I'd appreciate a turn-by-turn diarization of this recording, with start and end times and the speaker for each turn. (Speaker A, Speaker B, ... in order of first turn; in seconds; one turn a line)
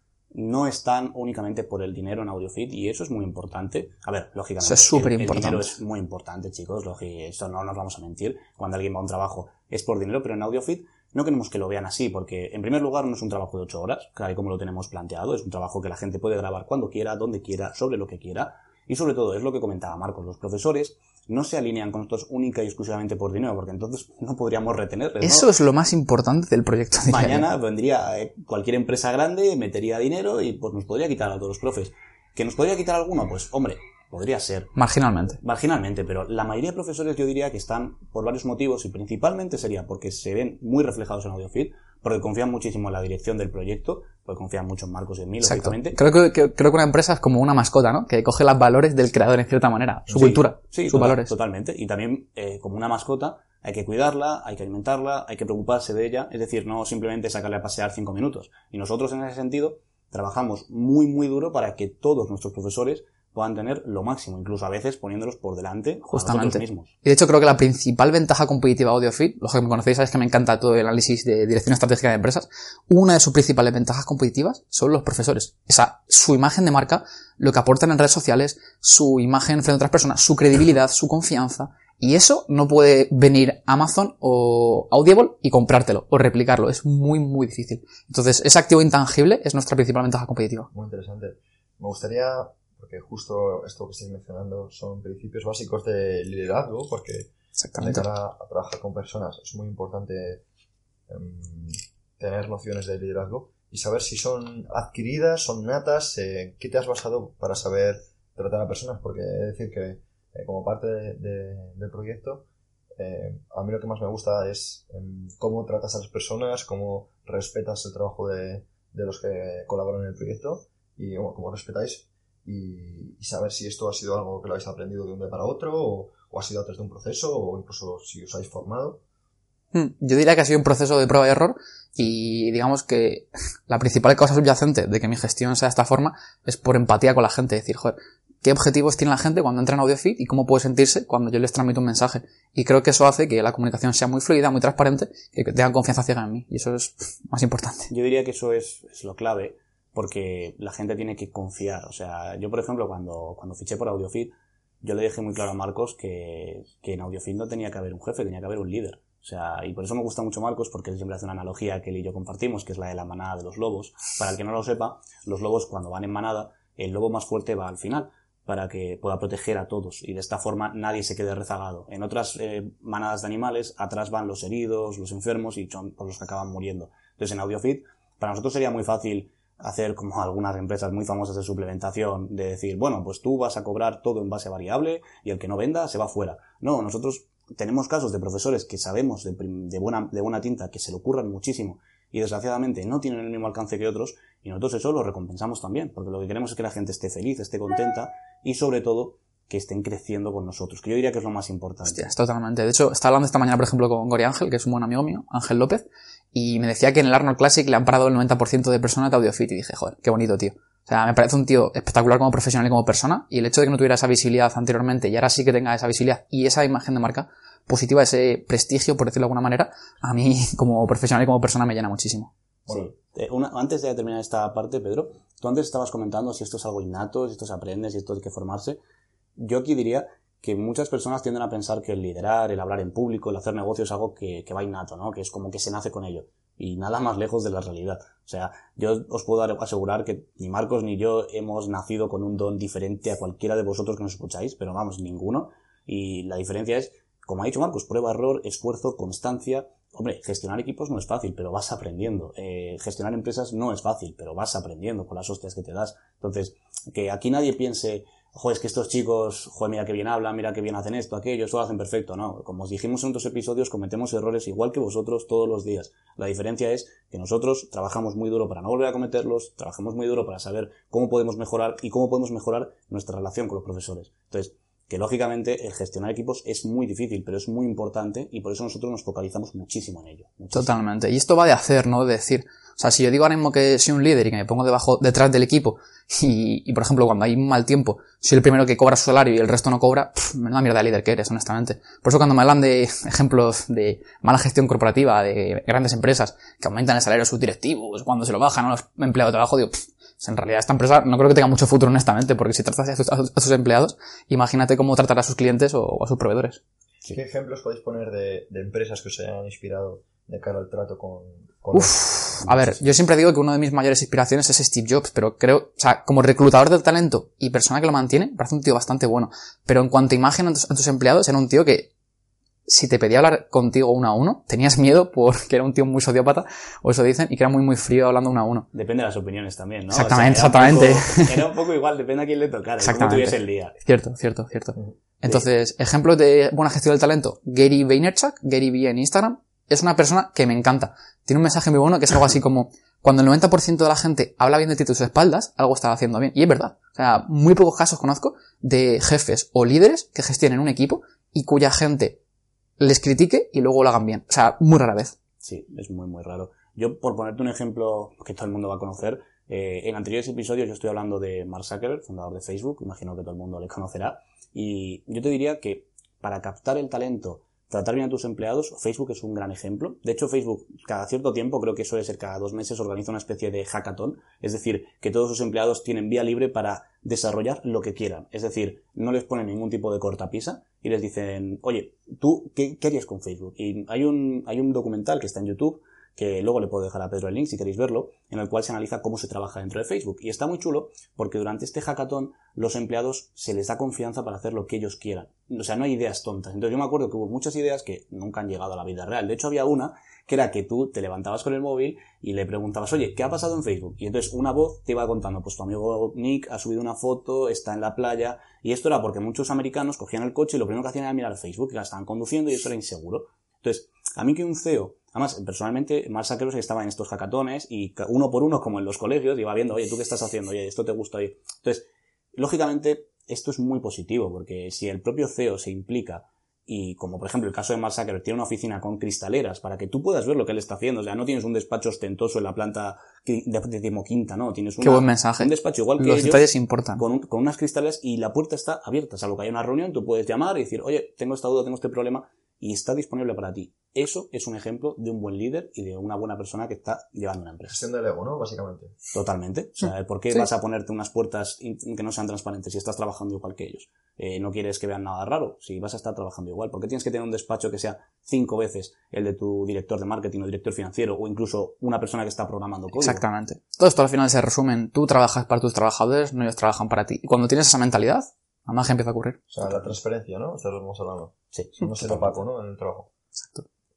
Speaker A: 0.3-25.5
Speaker B: 4.6-5.7
Speaker B: 25.2-27.5
Speaker A: 27.1-34.7
Speaker B: 34.8-35.4
Speaker A: 35.4-46.0
Speaker B: 45.4-51.3
Speaker A: 50.1-66.9
Speaker B: 66.1-90.7
Speaker C: 90.7-100.4
Speaker B: 97.6-98.1
Speaker C: 101.1-112.5
Speaker C: 113.0-129.0
Speaker B: 129.7-147.9
Speaker A: 147.9-202.1
Speaker B: 201.9-222.3
Speaker A: 222.7-228.8
Speaker A: 229.4-280.7
Speaker B: 280.5-306.6
Speaker C: 307.1-312.5
Speaker B: 311.7-321.9
Speaker B: 322.7-328.7
Speaker A: 328.7-333.8
Speaker B: 329.9-331.4
Speaker B: 332.8-352.2
Speaker B: 352.8-355.1
Speaker A: 355.4-447.8
Speaker B: 434.8-437.0
Speaker C: 447.7-449.0
Speaker A: 449.1-463.2
Speaker B: 463.0-469.4
Speaker C: 469.5-473.1
Speaker A: 469.6-469.9
Speaker A: 471.5-472.4